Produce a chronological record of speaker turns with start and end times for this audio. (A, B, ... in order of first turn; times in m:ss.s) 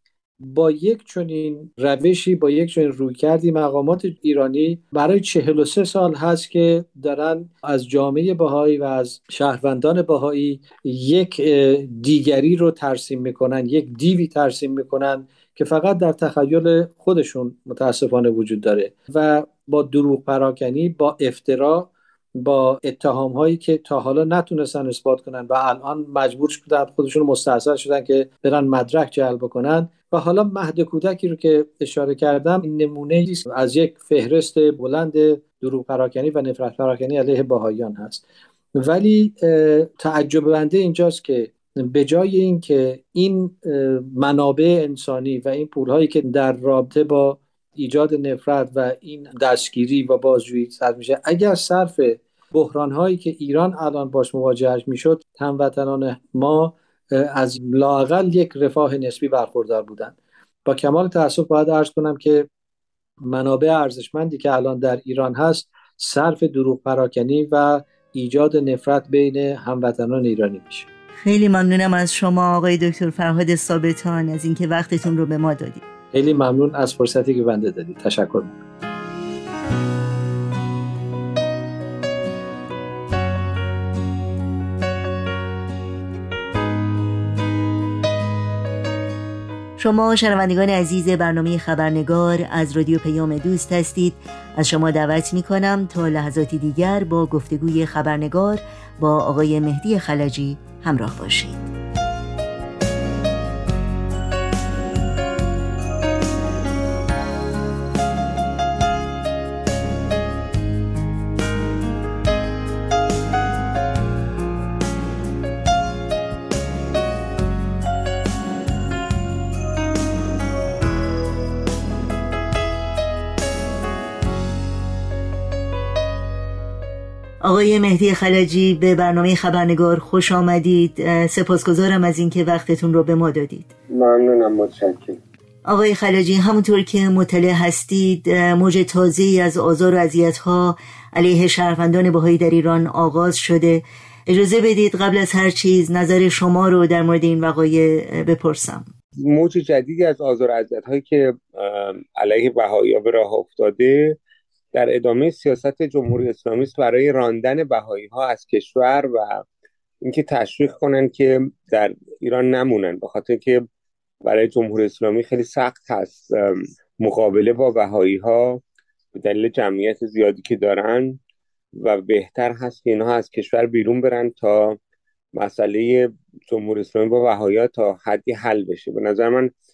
0:00.4-0:38.2 A
0:38.8-1:02.5 A
1:03.3-1:10.9 A
1:11.2-1:15.8 B
1:16.1-1:18.6 A
1:29.8-1:41.7 B
2:07.4-2:13.7 B
2:13.9-2:15.2 C
2:15.7-2:28.9 B
2:29.2-2:34.2 C
2:34.7-2:39.4 C
2:40.0-2:43.6 C
2:44.2-2:48.6 C
2:49.1-2:51.2 C
2:51.8-2:54.8 C
2:55.4-2:59.5 C